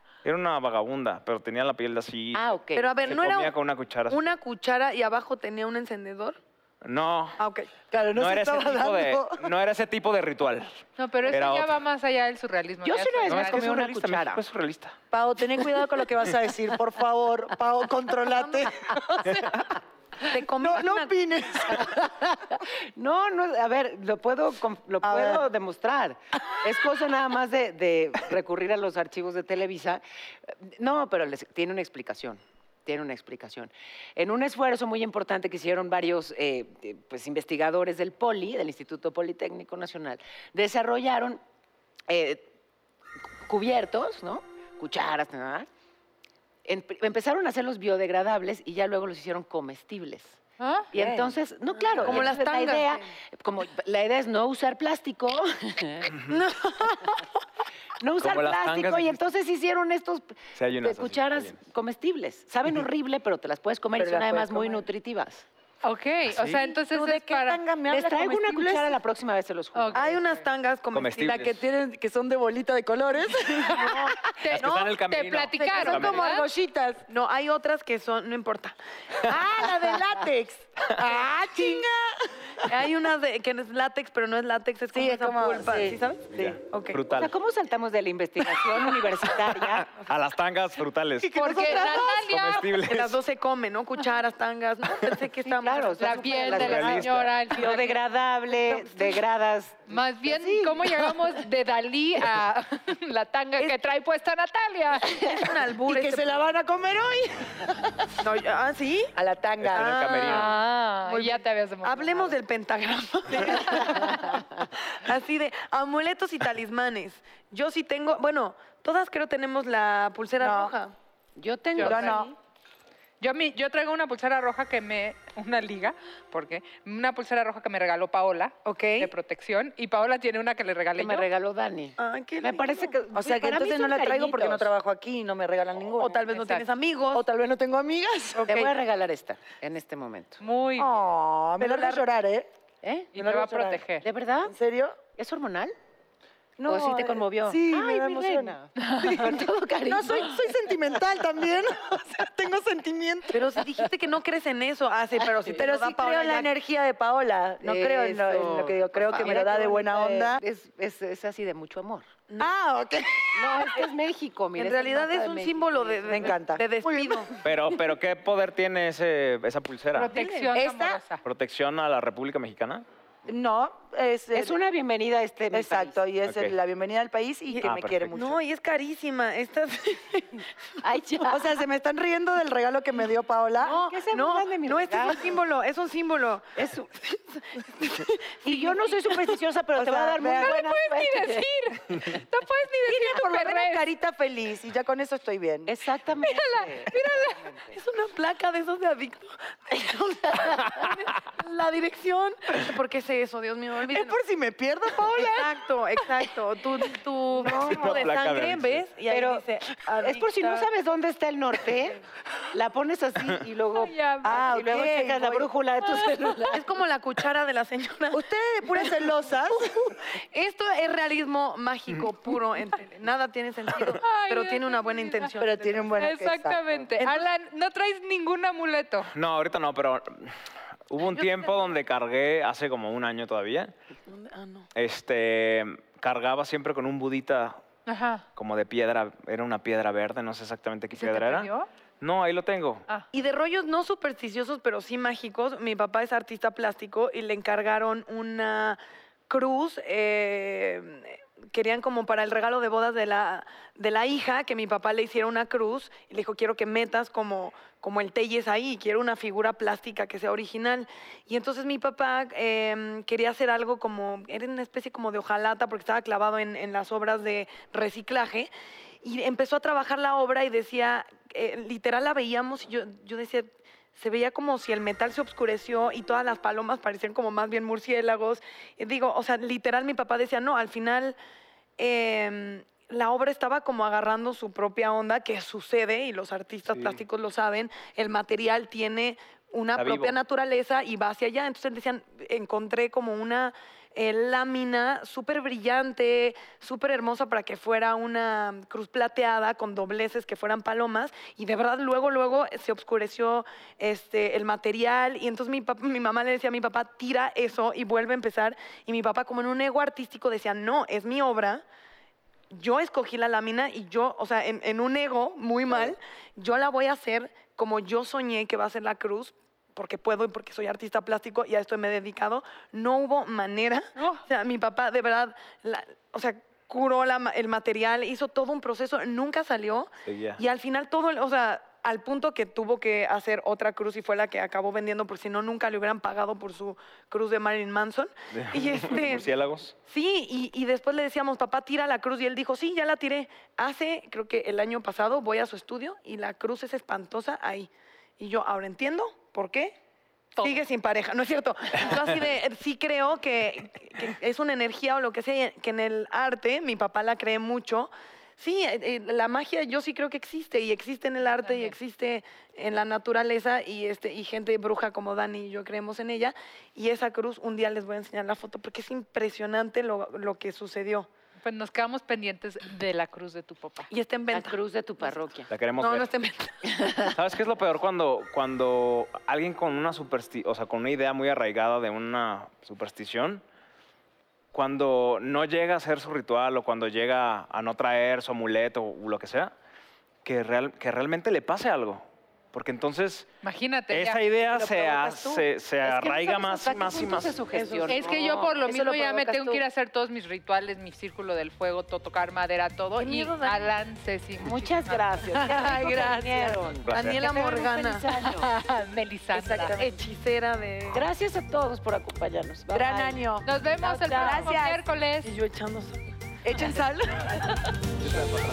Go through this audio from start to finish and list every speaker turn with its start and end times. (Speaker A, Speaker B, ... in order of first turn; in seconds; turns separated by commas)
Speaker A: 0.2-4.2, Speaker B: 2.4-3.0, Speaker C: 2.8-3.6, Speaker C: 4.1-6.4, Speaker A: 6.8-7.4, Speaker C: 7.4-7.7, Speaker D: 7.9-9.5, Speaker A: 8.1-11.8, Speaker E: 11.0-13.7, Speaker B: 12.8-14.4, Speaker A: 13.3-15.0, Speaker D: 15.1-19.6, Speaker C: 20.3-21.1, Speaker D: 20.4-22.1, Speaker B: 21.9-41.4, Speaker D: 25.0-25.4, Speaker B: 42.1-42.5, Speaker B: 43.5-45.7, Speaker B: 46.7-50.4, Speaker E: 50.6-50.9, Speaker B: 50.9-56.1, Speaker D: 51.0-51.4, Speaker A: 52.0-52.3, Speaker C: 52.0-53.0, Speaker C: 56.3-57.2, Speaker B: 58.0-65.5, Speaker A: 58.2-59.3, Speaker A: 60.5-61.6, Speaker D: 64.0-64.8, Speaker E: 65.8-67.6, Speaker A: 66.3-66.7, Speaker D: 66.8-69.0, Speaker B: 67.9-70.1, Speaker E: 69.7-70.4, Speaker C: 69.9-71.5, Speaker A: 70.9-71.6, Speaker D: 71.3-74.2, Speaker C: 73.5-74.9, Speaker E: 74.3-76.5, Speaker A: 74.5-76.2, Speaker D: 75.6-77.0, Speaker C: 77.1-78.8, Speaker D: 79.3-82.7, Speaker C: 82.6-87.2, Speaker D: 84.9-86.6, Speaker A: 86.3-87.3, Speaker B: 87.1-89.9, Speaker A: 89.7-93.2, Speaker D: 91.2-92.3, Speaker E: 91.3-92.7, Speaker C: 91.5-91.8, Speaker C: 92.9-96.7, Speaker B: 95.5-101.1, Speaker E: 96.0-98.0, Speaker A: 96.5-97.3, Speaker C: 98.7-99.2, Speaker E: 99.9-105.2, Speaker C: 105.2-106.3, Speaker D: 105.8-108.1, Speaker C: 108.2-109.1, Speaker D: 109.2-109.9, Speaker A: 109.6-110.5, Speaker C: 109.7-121.0, Speaker E: 110.3-112.3, Speaker D: 120.4-120.8, Speaker B: 121.4-122.3, Speaker E: 121.8-122.2, Speaker D: 121.8-122.3, Speaker E: 123.2-131.3, Speaker C: 128.7-129.1, Speaker B: 131.0-134.7, Speaker C: 132.0-132.9, Speaker D: 133.1-136.6, Speaker C: 136.0-137.2, Speaker D: 137.1-138.5, Speaker C: 138.3-138.7, Speaker B: 138.5-140.4, Speaker E: 140.4-140.9, Speaker D: 140.8-142.5, Speaker C: 141.6-142.0, Speaker B: 142.8-143.1, Speaker E: 143.1-144.1, Speaker D: 143.2-143.8, Speaker B: 144.0-144.6, Speaker D: 144.4-145.0, Speaker B: 145.2-145.8, Speaker D: 146.6-148.6, Speaker B: 146.7-150.4, Speaker E: 148.8-149.3, Speaker D: 149.9-153.8, Speaker C: 153.3-156.5, Speaker D: 155.4-160.4, Speaker B: 157.6-162.1, Speaker D: 162.4-163.8, Speaker B: 163.3-166.4, Speaker C: 164.6-167.3, Speaker D: 166.1-167.3, Speaker A: 167.4-170.2, Speaker E: 169.9-171.2, Speaker C: 170.1-170.5, Speaker D: 170.5-171.0, Speaker A: 171.2-172.8, Speaker D: 173.3-174.6, Speaker B: 174.3-176.0, Speaker D: 175.5-178.4, Speaker A: 176.3-176.6, Speaker C: 177.5-180.4, Speaker A: 177.6-178.1, Speaker B: 180.8-181.5, Speaker D: 181.2-183.8, Speaker B: 183.6-185.4, Speaker C: 183.6-189.3, Speaker B: 186.6-186.9, Speaker B: 188.4-191.5, Speaker D: 189.8-190.6, Speaker E: 190.4-193.9, Speaker D: 192.9-195.8, Speaker B: 195.7-197.8, Speaker E: 196.2-197.4, Speaker C: 197.7-204.2, Speaker B: 200.3-200.9, Speaker D: 203.9-205.6, Speaker C: 205.1-210.7, Speaker D: 207.4-208.0, Speaker A: 207.4-208.9, Speaker B: 209.1-209.4, Speaker B: 210.0-216.7, Speaker E: 213.8-214.5, Speaker D: 214.2-215.5, Speaker E: 215.9-216.5, Speaker C: 216.5-218.2, Speaker D: 218.1-219.9, Speaker C: 219.9-226.0, Speaker E: 224.0-225.3, Speaker D: 225.4-226.9, Speaker E: 226.0-229.1, Speaker C: 227.0-227.3, Speaker A: 229.1-230.4, Speaker A: 230.9-233.7, Speaker C: 231.1-231.6, Speaker C: 234.1-234.7, Speaker A: 234.8-237.6, Speaker E: 237.9-238.2, Speaker A: 238.4-242.8, Speaker E: 240.9-241.7, Speaker C: 243.1-268.5, Speaker C: 269.0-281.2, Speaker C: 281.8-311.6, Speaker A: 286.7-287.0, Speaker A: 289.8-290.2, Speaker C: 312.5-339.3, Speaker A: 330.1-330.4, Speaker A: 338.4-339.8, Speaker C: 339.9-349.8, Speaker E: 350.4-350.6, Speaker C: 350.4-371.1, Speaker E: 361.4-361.8, Speaker E: 371.4-373.9, Speaker C: 373.9-374.6, Speaker B: 374.3-375.5, Speaker A: 375.5-376.1, Speaker C: 375.8-377.0, Speaker A: 377.1-383.4, Speaker A: 384.5-389.5, Speaker A: 390.2-393.3, Speaker E: 393.4-394.2, Speaker A: 393.9-397.4, Speaker C: 394.5-395.4, Speaker B: 395.9-399.5, Speaker C: 397.5-398.4, Speaker E: 397.9-406.2, Speaker D: 399.1-399.4, Speaker C: 403.0-403.7, Speaker B: 404.4-408.5, Speaker C: 405.5-408.3, Speaker A: 406.9-407.2, Speaker E: 408.4-409.9, Speaker D: 409.3-409.9, Speaker C: 409.6-411.1, Speaker B: 410.9-413.2, Speaker D: 412.7-414.8, Speaker C: 412.8-413.4, Speaker E: 413.4-415.3, Speaker C: 414.1-414.6, Speaker C: 415.2-417.7, Speaker D: 416.4-416.8